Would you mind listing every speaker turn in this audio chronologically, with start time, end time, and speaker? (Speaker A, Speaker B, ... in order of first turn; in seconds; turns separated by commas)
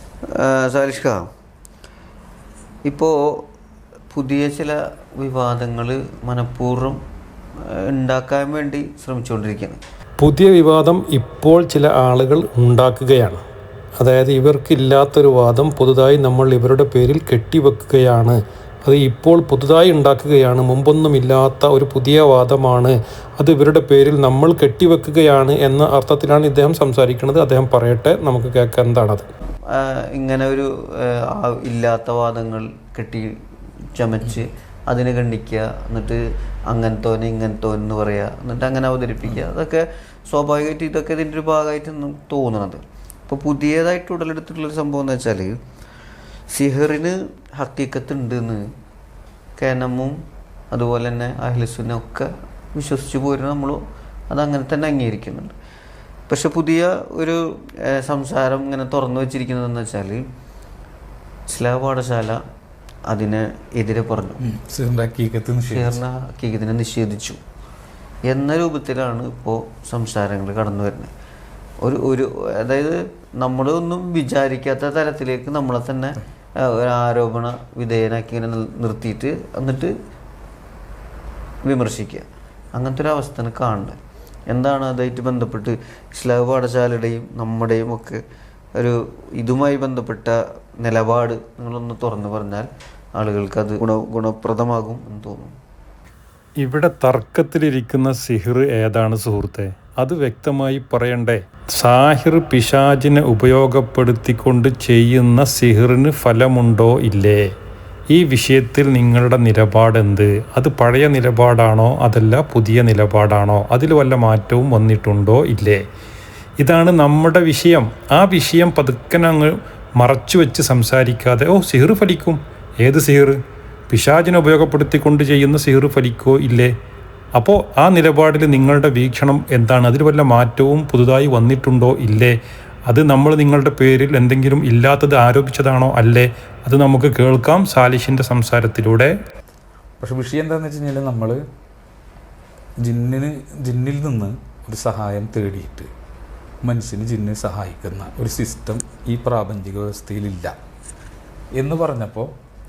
Speaker A: 0.3-1.2, Speaker A: 2.9-3.2, Speaker A: 4.1-7.0, Speaker A: 7.9-9.8, Speaker B: 10.2-13.4, Speaker B: 14.0-29.3, Speaker A: 29.7-33.3, Speaker A: 34.0-45.5, Speaker A: 46.5-48.6, Speaker A: 49.6-50.1, Speaker A: 50.7-55.5, Speaker A: 56.3-60.2, Speaker A: 61.5-62.4, Speaker A: 63.1-64.4, Speaker C: 64.4-66.0, Speaker A: 65.7-67.4, Speaker A: 68.3-71.1, Speaker A: 71.8-76.2, Speaker A: 76.7-79.9, Speaker A: 81.6-84.0, Speaker A: 84.5-88.2, Speaker A: 88.8-95.5, Speaker B: 96.6-107.5, Speaker B: 108.1-115.8, Speaker B: 116.6-123.4, Speaker B: 123.9-126.7, Speaker B: 127.4-132.4, Speaker B: 132.9-139.1, Speaker C: 140.0-141.4, Speaker C: 142.8-145.9, Speaker C: 146.6-150.6, Speaker C: 151.6-152.3